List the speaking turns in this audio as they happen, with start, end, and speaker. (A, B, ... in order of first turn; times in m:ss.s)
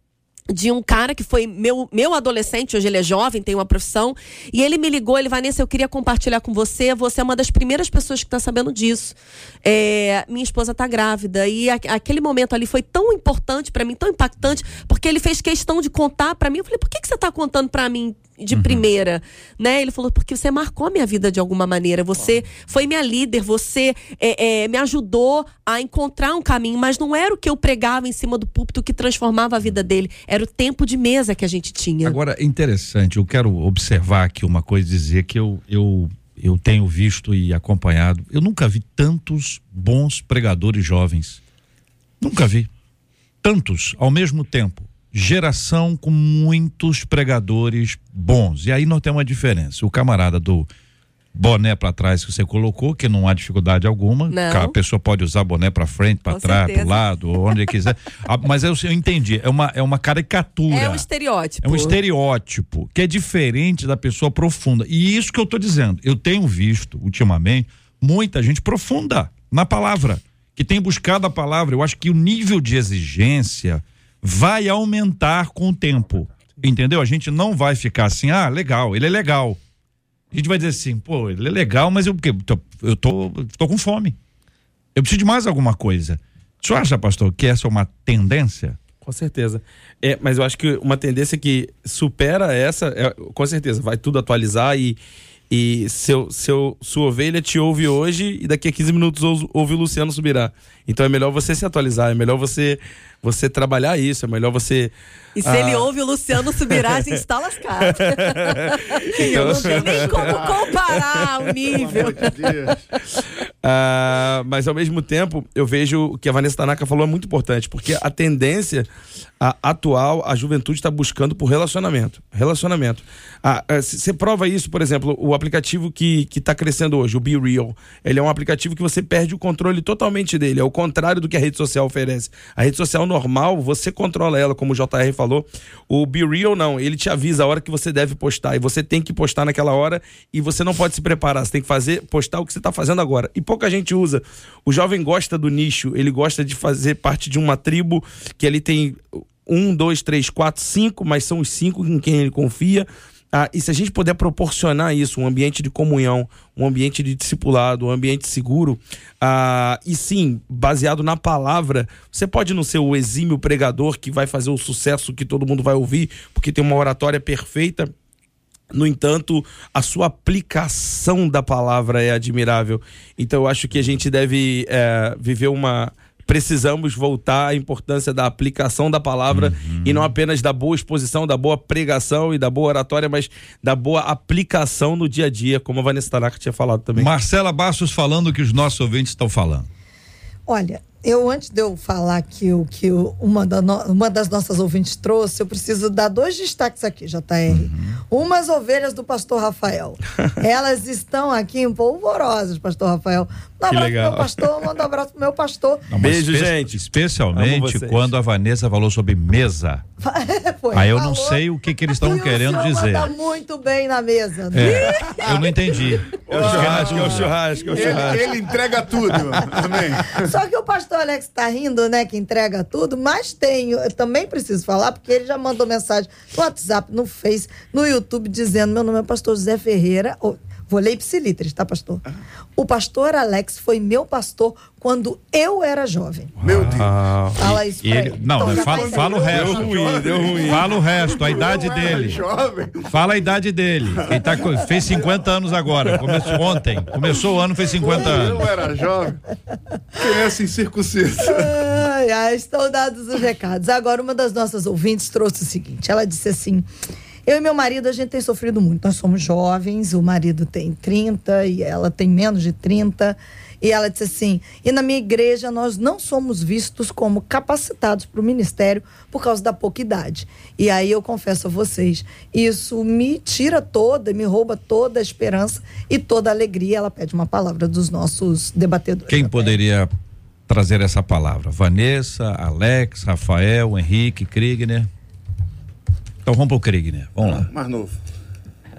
0:00.5-0:32.2 A
0:18.5-0:18.8 B
0:32.0-0:41.4 B
0:42.2-0:42.7 B
0:43.4-0:50.7 B
0:51.3-1:01.0 B
0:54.3-0:54.8 A
0:56.3-0:57.6 A
1:00.7-1:02.0 A
1:01.6-1:19.6 B
1:20.3-1:24.2 B
1:24.9-1:28.8 B
1:29.0-1:35.0 C
1:35.5-1:47.2 C
1:45.4-1:52.8 A
1:47.8-1:50.6 C
1:49.9-1:50.5 D
1:51.7-1:52.8 D
1:53.6-1:58.9 C
1:59.4-2:47.9 C
2:48.7-3:07.1 C
2:59.3-3:00.1 B
3:07.0-3:09.7 B
3:10.5-3:25.8 E
3:17.5-3:18.0 B
3:23.7-3:24.6 C
3:25.9-3:29.8 B
3:26.0-3:28.1 C
3:30.0-3:35.2 E
3:30.7-3:33.1 B
3:34.5-3:37.3 B
3:34.9-3:35.4 C
3:36.2-3:40.2 D
3:36.3-3:38.3 C
3:40.1-3:52.0 E
3:52.6-3:56.4 E
3:56.4-4:02.2 B
3:56.4-3:56.9 D
3:57.4-3:59.3 E
3:58.4-4:03.2 D
3:59.3-4:00.7 C
4:02.9-4:08.5 B
4:04.1-4:05.2 D
4:07.7-4:09.2 D
4:10.0-4:11.5 D
4:11.3-4:16.7 E
4:17.2-4:39.6 E
4:39.1-4:39.9 B
4:40.5-4:44.9 B
4:46.2-4:47.5 B
4:47.2-4:48.0 D